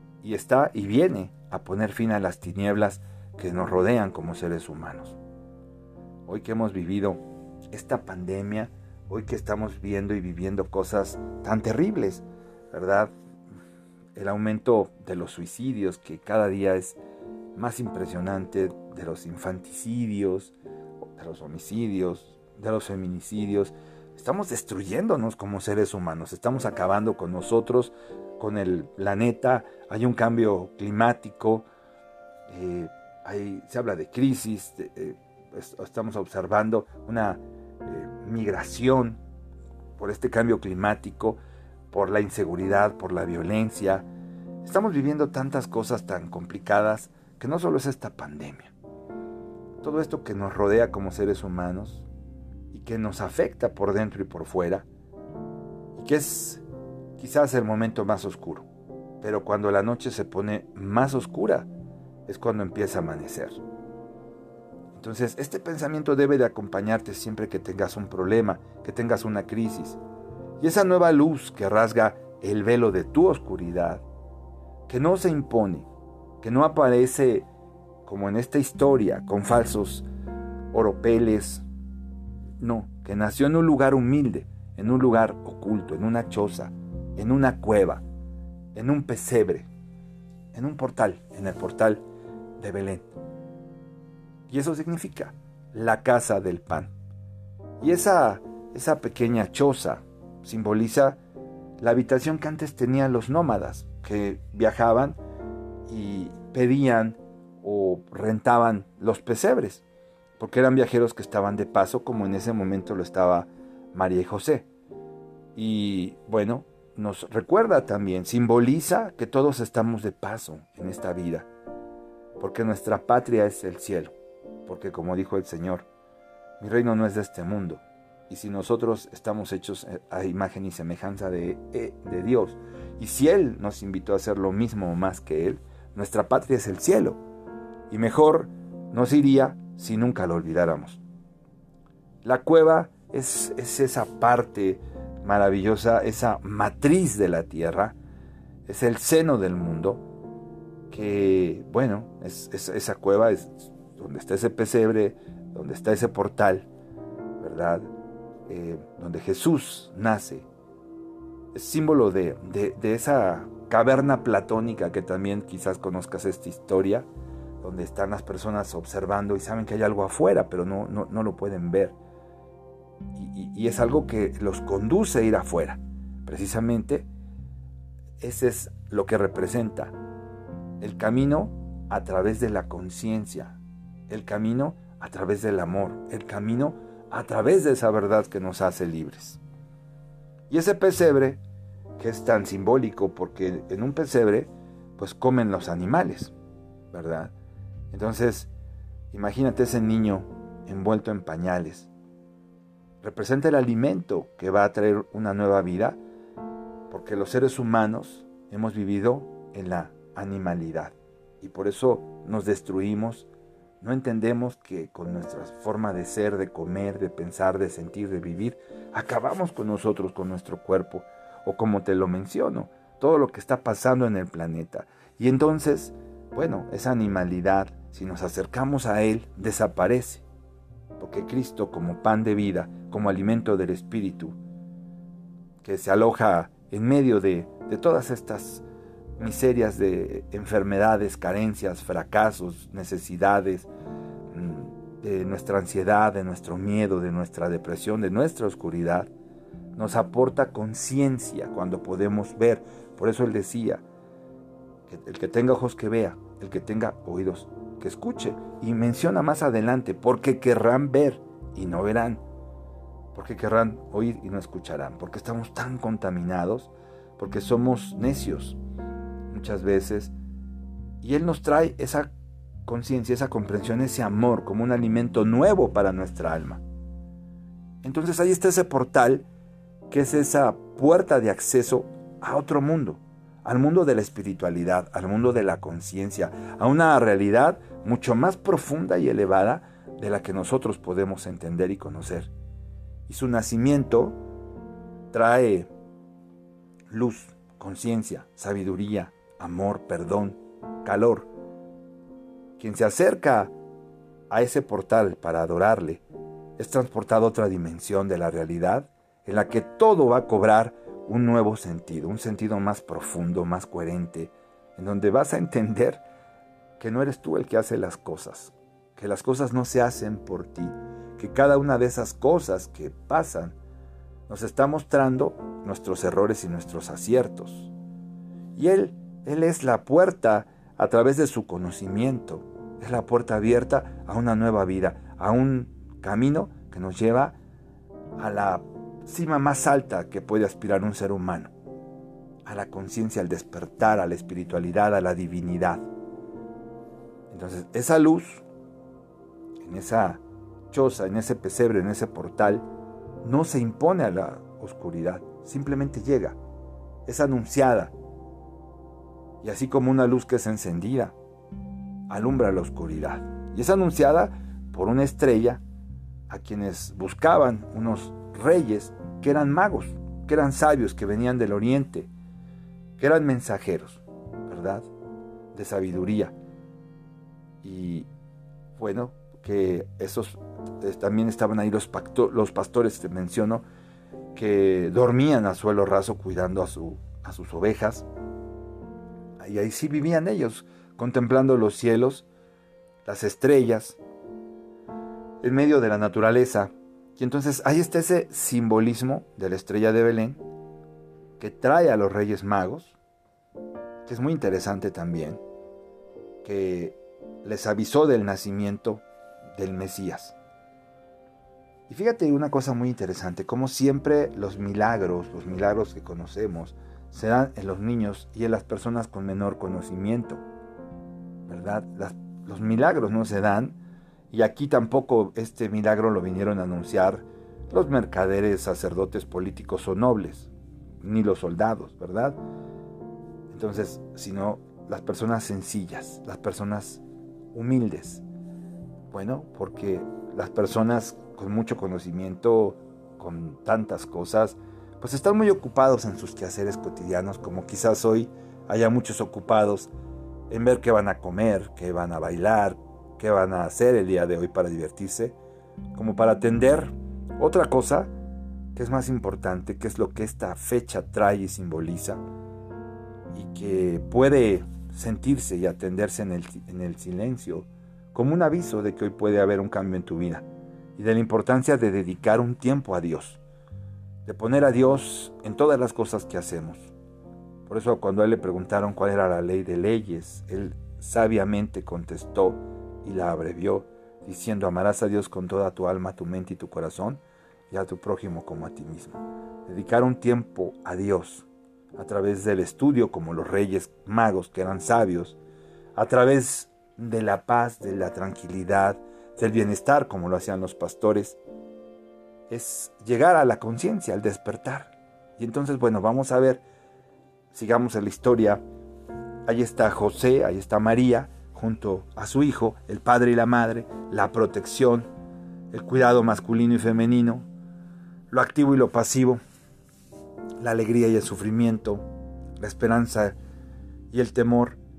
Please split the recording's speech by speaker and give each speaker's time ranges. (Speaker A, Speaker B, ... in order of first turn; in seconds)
Speaker A: 0.2-5.2, 6.3-13.1, 14.2-17.0, 17.6-20.5, 21.2-31.7, 32.5-39.2, 40.0-44.0, 44.6-48.7, 49.8-52.1, 52.7-54.9, 56.0-56.6, 57.2-58.7, 59.2-61.7, 62.3-63.6, 64.9-70.0, 70.6-74.0, 74.9-75.9, 76.4-77.5, 78.0-80.1, 80.7-81.7, 82.6-88.0, 88.8-89.7, 90.5-92.0, 92.6-93.1, 94.5-96.9, 97.8-101.2, 101.8-105.2, 105.9-109.8, 110.4-114.7, 115.6-121.5, 122.4-124.1, 124.7-125.9, 126.6-137.2, 137.9-141.0, 142.2-148.0, 148.7-150.0, 150.9-156.7, 157.4-157.9, 158.5-160.5, 161.5-167.1, 167.6-172.0, 173.2-177.1, 178.2-179.9, 180.8-183.6, 184.1-189.4, 190.5-191.4, 192.0-196.3, 196.9-197.3, 197.9-198.5, 199.1-201.9, 203.0-206.0, 206.9-213.3, 213.8-230.2, 231.0-234.4, 235.6-238.7, 239.2-243.7, 244.3-249.1, 249.8-253.8, 254.9-262.2, 263.1-268.6, 269.3-270.1, 271.0-272.1, 272.7-276.6, 277.8-279.3, 279.9-292.3, 293.1-294.2, 295.1-295.7, 296.9-301.3, 302.6-303.5, 304.3-306.0, 306.6-316.0, 316.8-323.6, 324.3-327.7, 328.6-337.4, 338.2-341.5, 342.4-345.9, 347.3-348.4, 349.6-352.7, 353.2-356.4, 357.1-357.9, 359.4-361.1, 362.1-365.6, 366.3-372.1, 373.0-374.9, 375.5-376.4, 377.6-378.1, 378.8-383.6, 384.3-388.1, 389.4-392.3, 393.1-394.0, 395.4-400.4, 401.4-403.0, 404.1-405.4, 406.4-409.0, 409.6-410.4, 411.9-420.4, 421.5-423.8, 424.3-430.5, 431.0-432.4, 433.5-437.0, 437.5-438.2, 439.1-449.9, 450.5-455.4, 455.9-458.1, 458.8-462.2, 463.3-470.4, 471.0-473.4, 474.3-476.9, 477.7-495.4, 496.0-501.4, 502.5-506.6, 507.5-508.6, 509.5-515.1, 515.7-517.5, 518.3-519.4, 520.6-522.0, 522.6-523.4, 524.1-524.8